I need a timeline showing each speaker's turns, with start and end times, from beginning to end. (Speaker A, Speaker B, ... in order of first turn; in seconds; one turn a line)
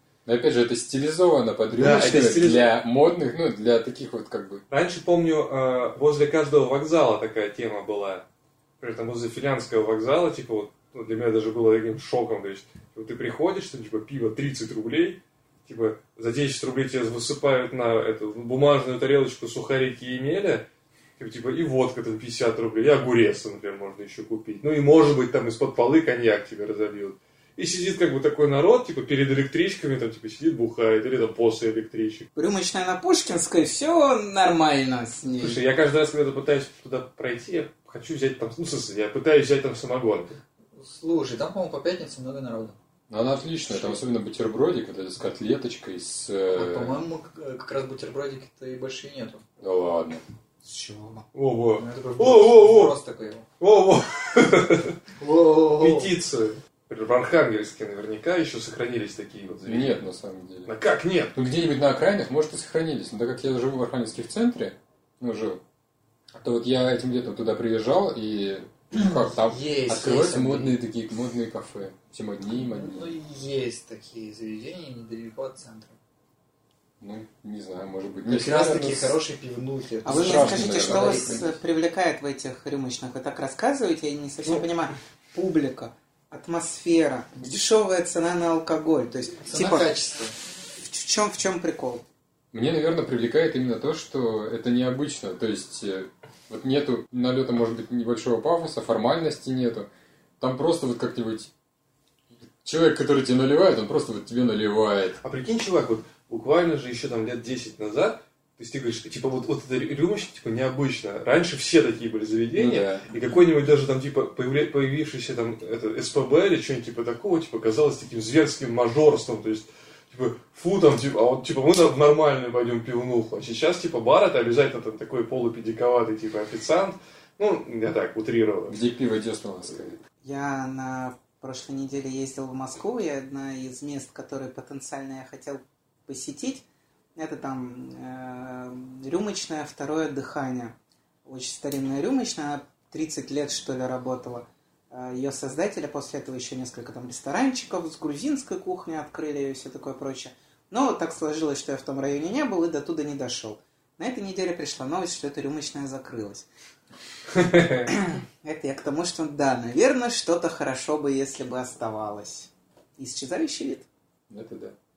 Speaker A: 0.2-4.6
Speaker B: 1.8-2.7
Speaker B: 4.7-8.3
Speaker B: 8.8-20.7
Speaker B: 21.2-32.3
Speaker C: 32.4-35.6
Speaker B: 35.4-40.4
Speaker D: 40.8-42.8
Speaker A: 43.1-47.0
Speaker D: 46.5-49.5
Speaker A: 49.6-50.2
Speaker D: 50.6-51.2
Speaker B: 51.3-53.0
Speaker D: 51.8-53.5
Speaker B: 53.6-55.0
Speaker D: 55.2-56.1
Speaker B: 55.7-60.0
Speaker A: 59.7-60.7
Speaker B: 60.7-61.4
Speaker A: 61.3-65.6
Speaker A: 66.4-73.1
Speaker D: 69.0-70.8
Speaker D: 72.5-76.0
Speaker A: 77.0-79.2
Speaker D: 78.3-81.5
Speaker A: 80.0-81.5
Speaker C: 80.0-89.9
Speaker D: 89.4-90.3
Speaker C: 90.8-92.0
Speaker A: 92.5-99.9
Speaker A: 100.4-101.5
Speaker A: 102.6-105.2
Speaker B: 105.2-128.8
Speaker A: 112.5-113.1
Speaker A: 128.7-130.0
Speaker C: 130.2-136.6
Speaker C: 137.2-156.5
Speaker B: 157.3-157.9
Speaker C: 157.9-163.9
Speaker A: 164.3-164.8